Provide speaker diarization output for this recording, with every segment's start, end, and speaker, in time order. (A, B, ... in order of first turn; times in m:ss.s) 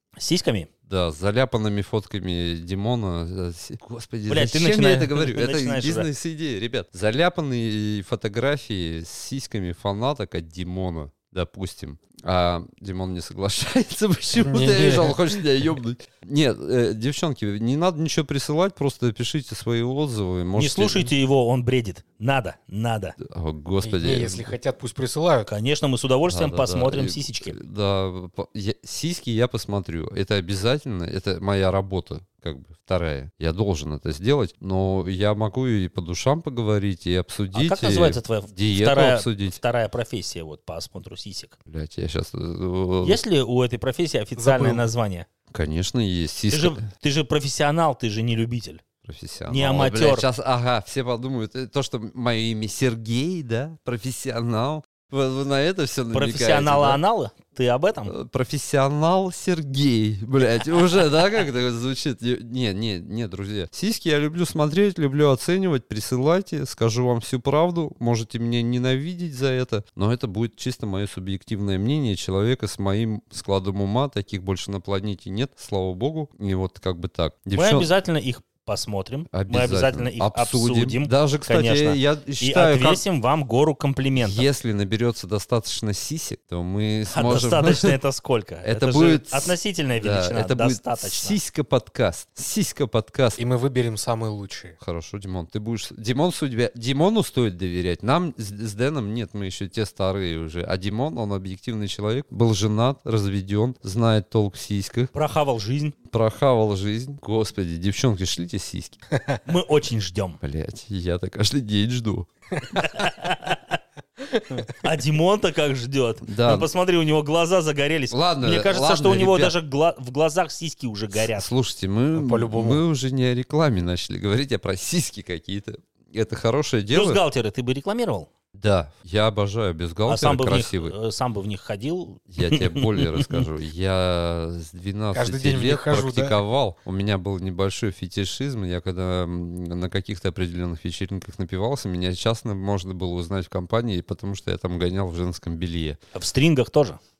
0:00.2-0:00.7 A
0:00.9-0:21.1 B
0:04.3-0:06.1 A
0:14.4-0:15.2 C
0:20.6-0:23.2 A
0:23.2-0:24.5 B
0:23.8-0:25.5 C
0:25.5-0:27.6 A
0:26.3-0:39.6 B
0:37.5-0:41.6 A
0:41.7-0:43.2 B
0:43.0-0:45.3 A
0:44.4-0:44.9 C
0:45.5-0:46.8 B
0:46.5-0:48.8 A
0:49.0-0:57.0 B
0:49.5-0:50.3 A
0:56.1-0:58.1 A
0:58.1-1:17.9 B
1:17.6-1:24.5 A
1:19.3-1:23.0 B
1:24.2-1:28.0 B
1:27.1-1:31.4 A
1:28.6-1:33.4 B
1:33.4-1:34.8 C
1:34.8-1:45.1 B
1:45.1-1:46.0 A
1:46.1-1:49.0 B
1:49.1-1:49.4 C
1:49.5-1:50.4 A
1:50.4-1:52.3 B
1:52.7-1:53.8 A
1:54.5-2:01.5 A
1:56.2-1:56.7 B
1:58.1-1:59.6 B
2:01.2-2:07.2 B
2:02.1-2:02.8 C
2:06.9-2:08.3 A
2:08.6-2:10.9 B
2:10.1-2:13.4 A
2:12.3-2:26.0 B
2:15.1-2:16.4 C
2:26.2-2:27.0 A